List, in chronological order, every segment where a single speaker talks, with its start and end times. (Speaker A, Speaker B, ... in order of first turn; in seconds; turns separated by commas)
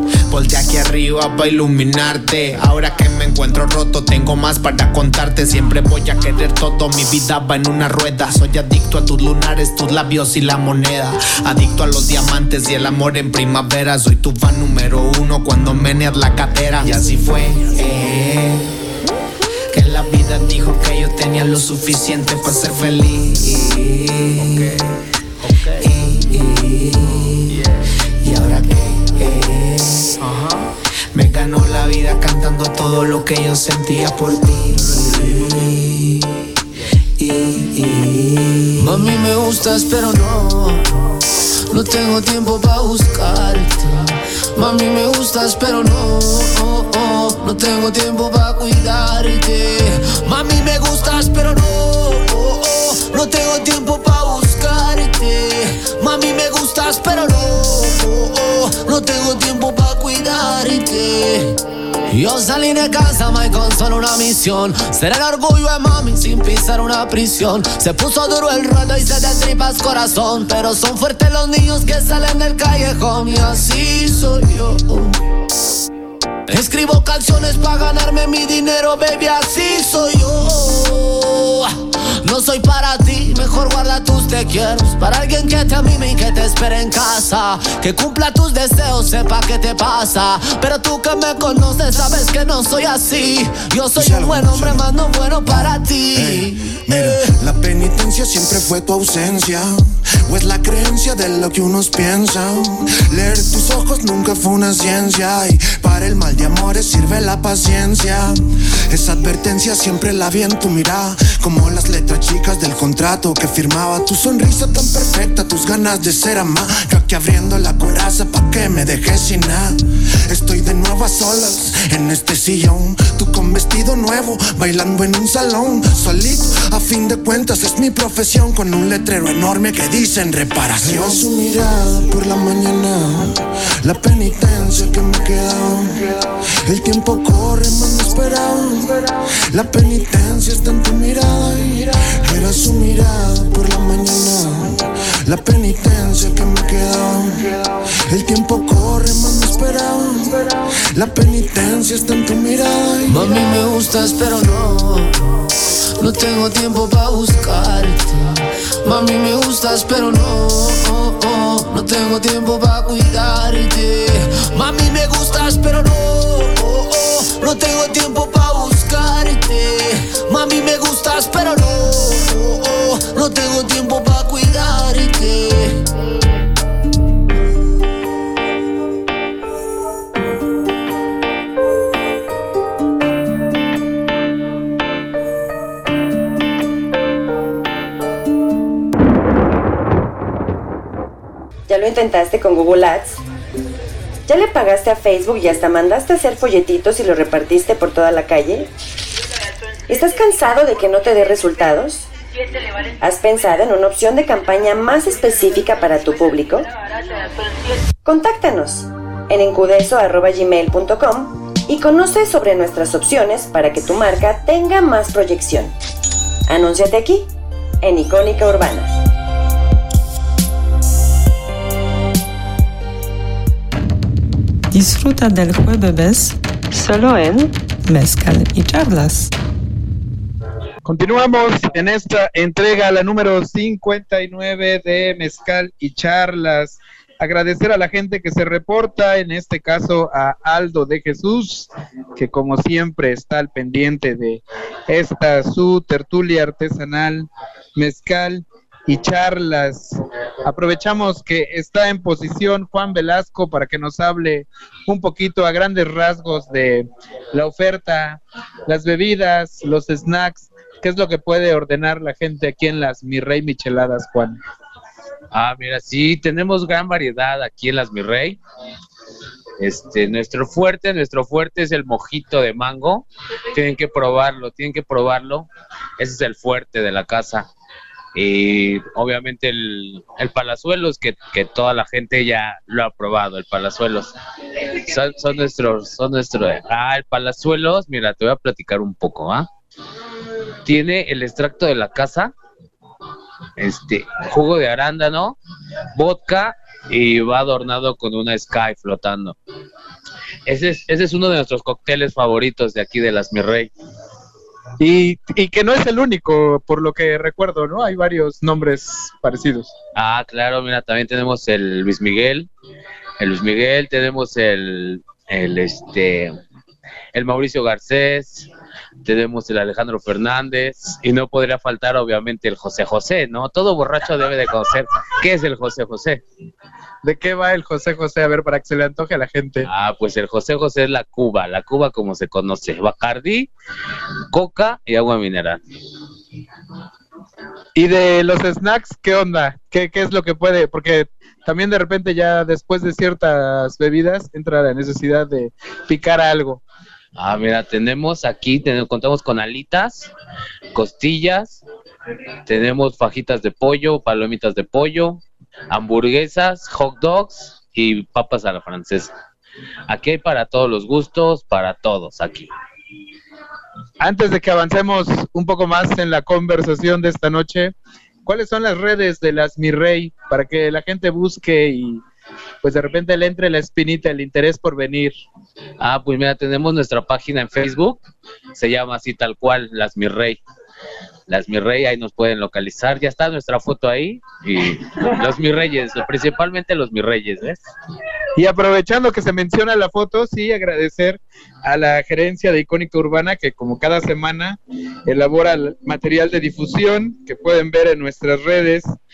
Speaker A: 0.3-18.7, Speaker A: 19.7-24.8, Speaker A: 25.5-27.6, Speaker A: 28.2-30.6, Speaker A: 31.1-36.2, Speaker A: 37.2-39.0, Speaker B: 38.8-40.9, Speaker B: 41.7-61.5, Speaker B: 62.1-75.1, Speaker B: 76.5-81.7, Speaker B: 82.2-96.3, Speaker C: 93.9-153.5, Speaker B: 153.4-155.1, Speaker B: 156.0-158.1, Speaker B: 158.9-175.4, Speaker D: 191.7-193.2, Speaker D: 194.3-198.7, Speaker D: 199.9-202.1, Speaker D: 203.0-206.7, Speaker D: 208.0-215.7, Speaker D: 216.5-217.3, Speaker D: 217.8-218.9, Speaker E: 224.7-229.3, Speaker F: 230.8-264.4, Speaker G: 265.3-268.4, Speaker G: 269.6-275.5, Speaker G: 276.0-277.5, Speaker G: 278.1-284.1, Speaker G: 284.8-289.5, Speaker G: 290.6-292.3, Speaker G: 293.6-295.4, Speaker G: 295.9-299.4, Speaker G: 300.5-303.7, Speaker F: 304.8-309.7, Speaker G: 309.9-312.5, Speaker G: 313.2-316.3, Speaker G: 317.1-318.5, Speaker G: 319.0-326.2, Speaker F: 327.0-329.7, Speaker G: 329.6-333.5, Speaker G: 334.3-335.6, Speaker F: 337.8-346.6, Speaker G: 347.1-350.1, Speaker G: 350.7-351.6, Speaker G: 352.5-359.1, Speaker G: 359.9-362.5, Speaker F: 364.0-367.7, Speaker F: 368.3-372.0, Speaker F: 372.6-375.1, Speaker G: 375.8-378.0, Speaker G: 378.5-380.4, Speaker G: 381.3-387.6, Speaker F: 388.4-399.0